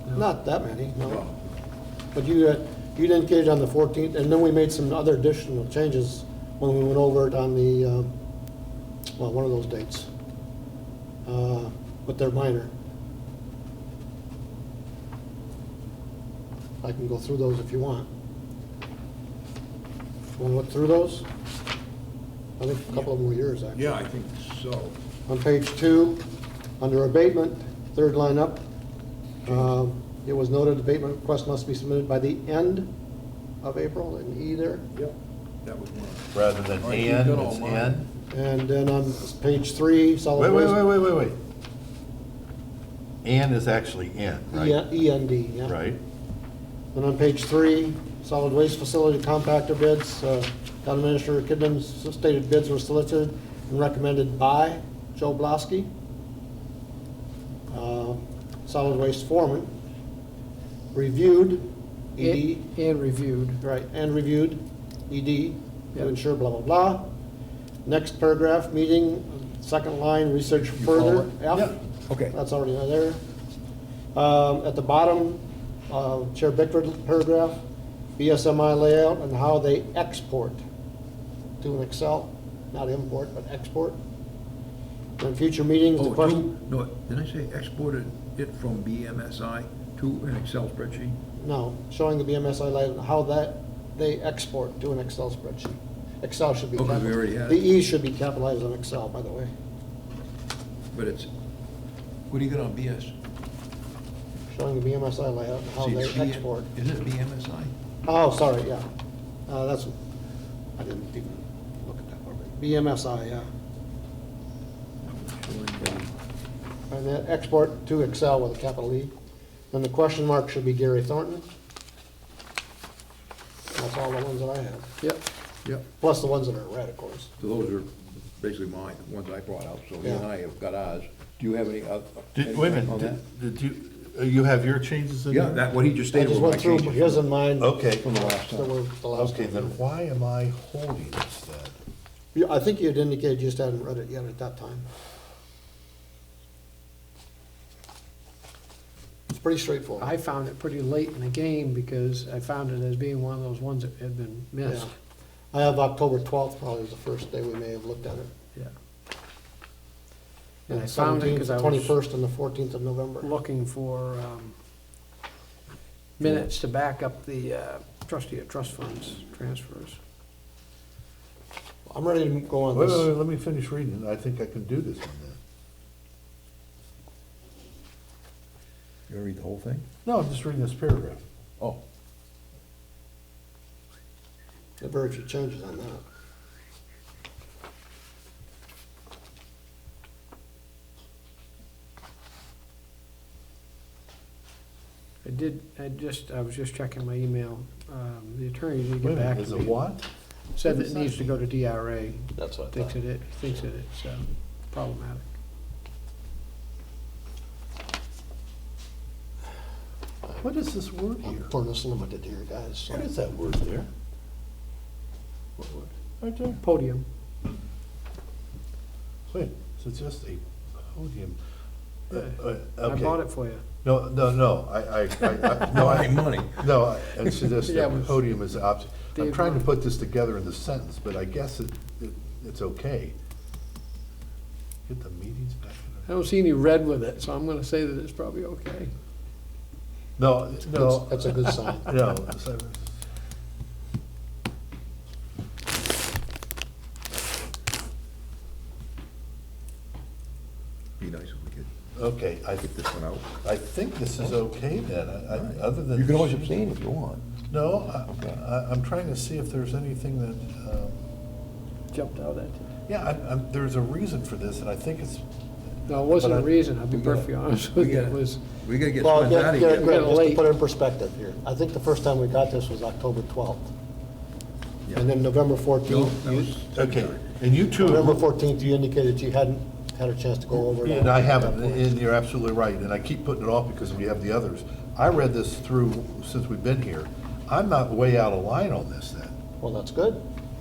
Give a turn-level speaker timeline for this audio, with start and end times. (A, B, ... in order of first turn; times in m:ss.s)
0:00.1-0:01.2 A
0:01.0-0:01.4 B
0:02.1-0:08.1 A
0:09.2-0:10.1 A
0:11.2-0:12.7 A
0:16.8-0:18.1 A
0:20.4-0:21.3 A
0:22.6-0:23.9 A
0:23.7-0:25.0 B
0:25.3-0:26.3 A
0:26.8-0:28.6 A
0:29.4-0:32.9 A
0:33.6-0:34.8 A
0:34.9-0:38.0 B
0:36.3-0:38.1 C
0:38.3-0:40.8 A
0:40.4-0:41.4 C
0:43.2-0:44.8 C
0:44.5-0:45.8 A
0:45.6-0:46.0 C
0:46.9-0:55.9 A
0:57.7-0:59.7 A
1:00.9-1:02.7 A
1:02.2-1:03.6 D
1:03.6-1:07.1 A
1:07.8-1:11.8 A
1:10.8-1:11.3 B
1:12.1-1:12.3 B
1:12.3-1:13.2 A
1:14.1-1:17.6 A
1:18.2-1:20.6 A
1:21.6-1:24.0 A
1:25.2-1:26.5 A
1:26.0-1:31.2 B
1:31.4-1:39.5 A
1:36.8-1:37.6 B
1:40.9-1:41.3 B
1:42.3-1:43.1 B
1:44.5-1:46.7 A
1:45.8-1:47.7 B
1:48.0-1:48.8 A
1:49.5-1:50.0 A
1:50.8-1:53.5 A
1:55.0-1:56.1 B
1:56.9-1:59.1 A
1:59.7-2:01.5 A
2:03.7-2:04.9 A
2:06.0-2:07.3 A
2:07.4-2:13.2 B
2:10.0-2:10.3 A
2:12.4-2:15.6 C
2:15.3-2:17.3 B
2:16.1-2:19.8 A
2:17.6-2:18.1 C
2:17.8-2:18.7 B
2:19.1-2:21.8 C
2:22.3-2:24.9 A
2:29.3-2:30.1 A
2:30.0-2:34.9 D
2:34.6-2:34.9 A
2:35.5-2:38.3 A
2:40.7-2:41.9 D
2:40.7-2:43.3 A
2:43.2-2:44.5 D
2:46.2-2:50.0 D
2:51.9-2:53.1 A
2:52.7-2:55.4 C
2:59.1-2:59.8 B
3:00.0-3:01.2 C
3:04.8-3:06.0 A
3:15.2-3:19.9 D
3:19.0-3:20.0 C
3:20.6-3:25.3 D
3:20.6-3:21.4 C
3:30.4-3:31.5 C
3:31.2-3:33.1 A
3:32.9-3:33.9 C
3:35.6-3:36.6 C
3:36.6-3:37.0 D
3:39.3-3:41.4 C
3:42.1-3:43.2 C
3:42.1-3:43.6 D
3:43.8-3:53.1 C
3:45.2-3:47.5 B
3:47.5-3:48.3 D
3:49.1-3:49.6 D
3:54.9-3:56.1 C
3:56.1-3:58.9 D
4:00.2-4:02.8 C
4:00.7-4:01.9 A
4:11.0-4:11.7 B
4:12.0-4:12.7 C
4:12.6-4:13.3 B
4:13.4-4:16.6 C
4:15.3-4:17.2 B
4:17.5-4:21.0 C
4:18.1-4:18.4 B
4:21.9-4:22.6 D
4:22.9-4:25.2 C
4:25.9-4:28.4 D
4:26.1-4:26.5 C
4:26.9-4:30.0 B
4:29.0-4:33.7 A
4:29.6-4:30.5 D
4:34.9-4:36.5 A
4:35.8-4:37.3 B
4:36.7-4:38.2 C
4:37.7-4:41.9 A
4:40.5-4:49.3 C
4:49.6-4:50.2 A